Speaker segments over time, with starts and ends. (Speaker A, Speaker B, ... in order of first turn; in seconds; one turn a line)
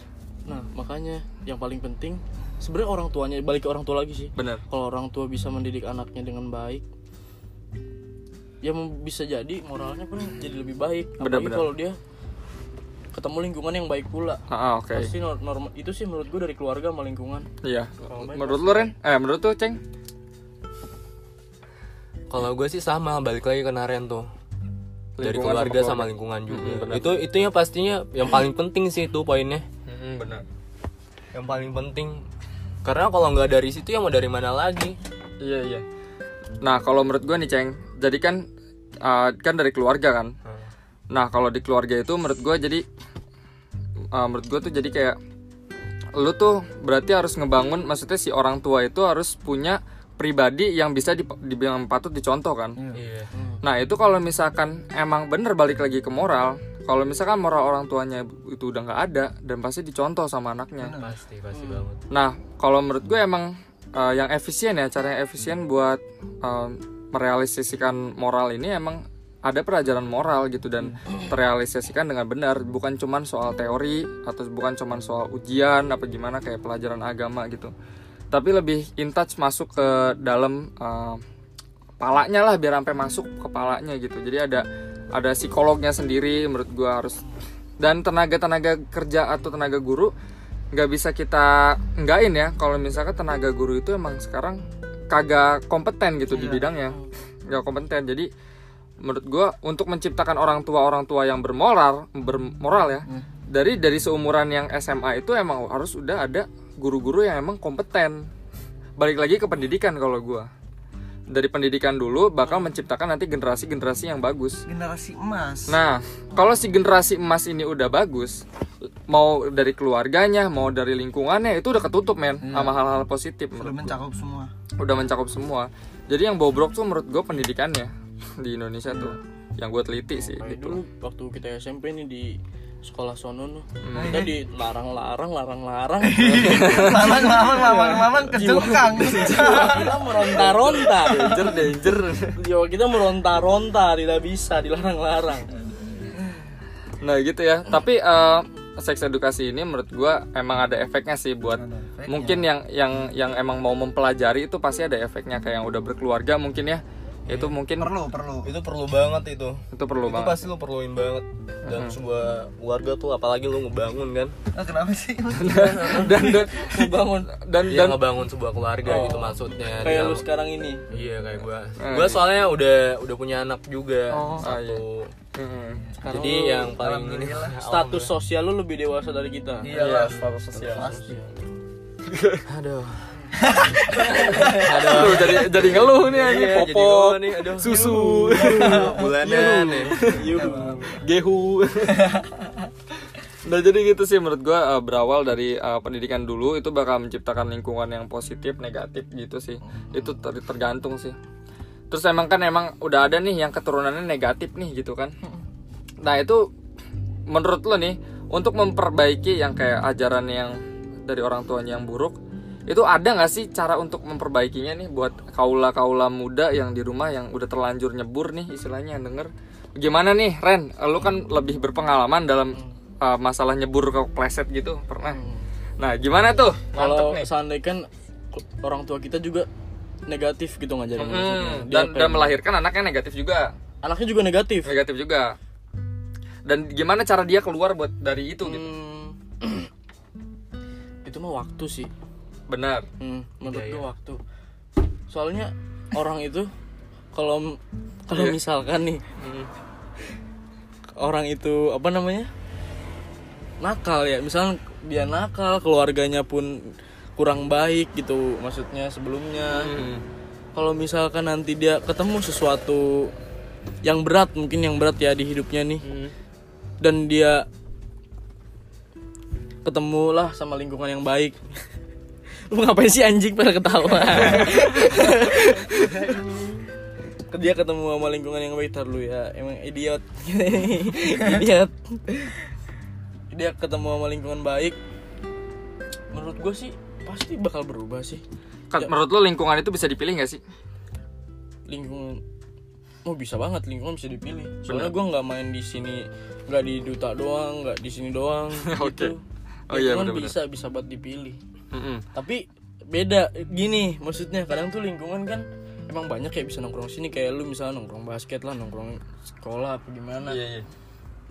Speaker A: 0.4-6.8
Speaker B: 4.3-4.6
Speaker A: 8.6-12.0
Speaker B: 11.2-11.7
Speaker A: 13.1-14.4
Speaker B: 14.5-15.1
Speaker A: 14.9-17.5
Speaker B: 17.6-19.8
Speaker A: 18.0-18.9
Speaker C: 22.3-24.2
Speaker B: 25.2-27.3
Speaker C: 25.2-29.6
Speaker B: 29.9-30.4
Speaker C: 31.3-32.2
Speaker C: 32.8-35.0
Speaker B: 35.4-35.8
Speaker B: 36.6-38.4
Speaker B: 39.0-40.3
Speaker B: 41.1-42.8
Speaker B: 44.1-45.2
Speaker B: 46.1-52.8
Speaker D: 52.8-53.0
Speaker C: 52.9-53.3
Speaker A: 53.3-53.6
Speaker B: 53.6-60.9
Speaker D: 60.8-61.1
Speaker C: 61.0-62.0
Speaker A: 61.5-61.8
Speaker B: 62.1-77.7
Speaker B: 78.3-81.2
Speaker B: 82.0-87.2
Speaker B: 87.8-90.1
Speaker B: 90.7-97.0
Speaker D: 96.3-96.7
Speaker B: 97.5-98.3
Speaker B: 99.0-108.2
Speaker B: 109.0-110.5
Speaker B: 111.3-114.6
Speaker D: 114.7-115.8
Speaker B: 115.7-118.4
Speaker B: 119.1-123.9
Speaker D: 122.4-122.8
Speaker D: 123.5-124.5
Speaker B: 124.8-130.8
Speaker A: 130.2-141.5
Speaker B: 133.8-134.2
Speaker D: 133.9-134.3
Speaker D: 136.0-141.5
Speaker B: 136.3-137.2
Speaker B: 138.3-139.8
Speaker B: 141.1-142.3
Speaker A: 142.3-145.5
Speaker D: 145.6-146.2
Speaker B: 147.0-157.9
Speaker D: 151.5-152.5
Speaker C: 157.3-157.5
Speaker D: 157.8-158.5
Speaker C: 158.4-164.3
Speaker B: 159.7-160.4
Speaker B: 161.7-162.0
Speaker D: 164.5-166.5
Speaker B: 165.4-168.1
Speaker A: 166.5-167.3
Speaker C: 167.7-170.2
Speaker A: 168.8-170.8
Speaker C: 170.9-175.1
Speaker B: 171.8-172.4
Speaker D: 174.1-174.5
Speaker B: 174.4-174.8
Speaker B: 175.3-175.9
Speaker A: 176.0-176.7
Speaker C: 176.1-178.1
Speaker D: 176.6-177.6
Speaker A: 177.6-179.7
Speaker D: 179.6-181.2
Speaker B: 179.7-180.8
Speaker C: 180.5-180.8
Speaker A: 180.6-181.3
Speaker B: 182.1-182.4
Speaker C: 182.5-183.1
Speaker D: 183.4-185.1
Speaker A: 183.9-184.6
Speaker C: 184.4-190.3
Speaker B: 184.7-190.3
Speaker D: 188.6-188.9
Speaker A: 190.1-190.9
Speaker D: 190.4-191.0
Speaker B: 191.0-192.1
Speaker D: 192.0-192.6
Speaker B: 193.4-201.1
Speaker D: 199.7-200.0
Speaker B: 201.9-205.2
Speaker B: 206.0-206.5
Speaker B: 207.3-225.2
Speaker A: 225.1-225.4
Speaker B: 225.8-227.3
Speaker A: 226.7-229.5
Speaker A: 230.1-232.4
Speaker B: 231.0-233.5
Speaker A: 233.8-234.7
Speaker B: 234.6-235.3
Speaker B: 236.4-238.7
Speaker A: 238.4-239.7
Speaker A: 241.0-241.9
Speaker B: 242.5-242.9
Speaker A: 243.0-244.2
Speaker C: 243.5-243.8
Speaker A: 245.1-246.5
Speaker A: 247.1-249.0
Speaker B: 248.1-248.4
Speaker C: 249.2-249.5
Speaker A: 251.0-252.3
Speaker A: 253.6-259.7
Speaker B: 259.5-260.0
Speaker A: 260.5-263.1
Speaker A: 263.8-265.8
Speaker B: 265.8-266.1
Speaker A: 266.8-267.4
Speaker A: 269.6-271.4
Speaker A: 272.5-276.2
Speaker A: 277.3-282.4
Speaker A: 283.3-284.8
Speaker A: 286.1-288.2
Speaker B: 288.7-290.4
Speaker A: 291.7-292.2
Speaker A: 293.0-301.4
Speaker B: 294.6-294.9
Speaker B: 298.6-299.1
Speaker B: 299.7-300.4
Speaker B: 301.7-302.1
Speaker A: 302.1-310.4
Speaker B: 310.3-310.7